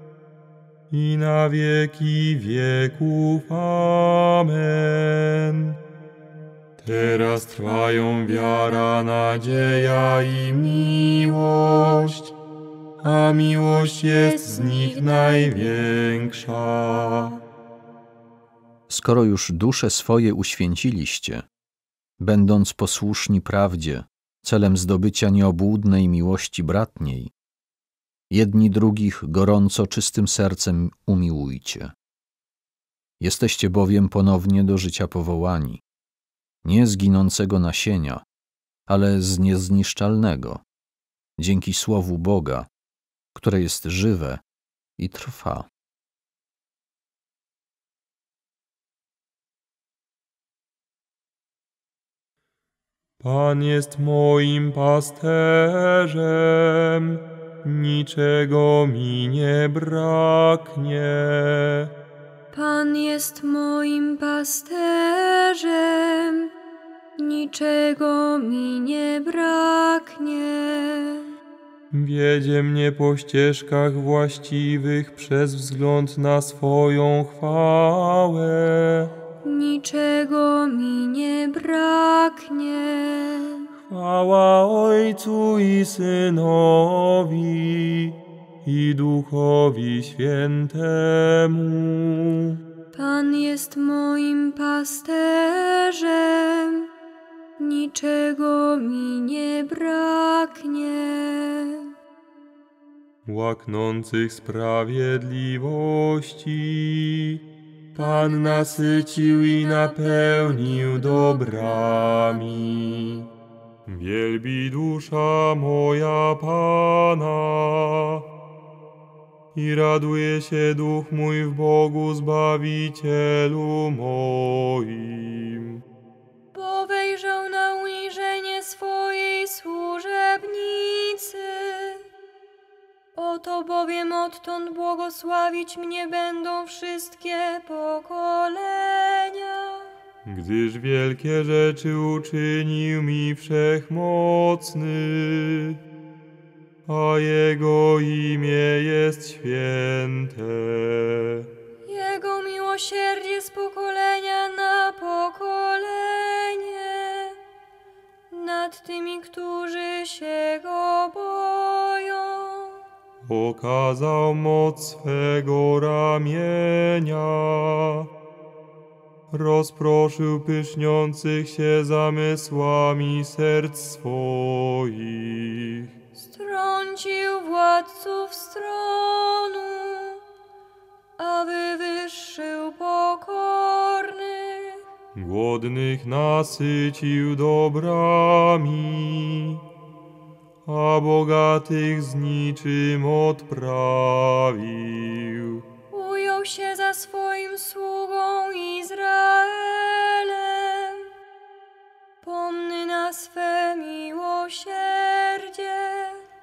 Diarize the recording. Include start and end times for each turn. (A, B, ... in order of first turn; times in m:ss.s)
0:00.9-0:05.8 A
0:06.8-0:12.3 A
0:13.0-0:17.4 A
0:14.5-0:15.5 B
0:18.9-0:21.5 C
0:22.2-0:27.3 C
0:28.3-0:31.9 C
0:33.2-0:35.8 C
0:36.6-0:38.2 C
0:38.9-0:40.6 C
0:41.4-0:42.7 C
0:43.4-0:44.4 C
0:45.0-0:45.7 C
0:53.2-1:01.9 A
1:02.5-1:06.5 B
1:07.2-1:11.3 B
1:11.9-1:19.1 A
1:19.4-1:23.7 B
1:23.9-1:32.6 A
1:32.9-1:36.9 B
1:37.6-1:41.9 B
1:43.3-1:47.4 A
1:48.0-1:53.3 A
1:48.2-1:51.4 B
1:53.9-1:58.2 A
1:59.5-2:05.8 A
2:06.5-2:12.0 B
2:13.2-2:19.9 B
2:20.2-2:25.8 A
2:26.9-2:31.5 A
2:31.9-2:37.4 B
2:38.3-2:42.8 B
2:43.2-2:48.1 A
2:49.3-2:55.9 A
2:56.2-3:00.2 B
3:01.2-3:04.8 B
3:05.2-3:09.6 A
3:10.7-3:15.6 A
3:15.9-3:21.1 B
3:22.2-3:26.2 B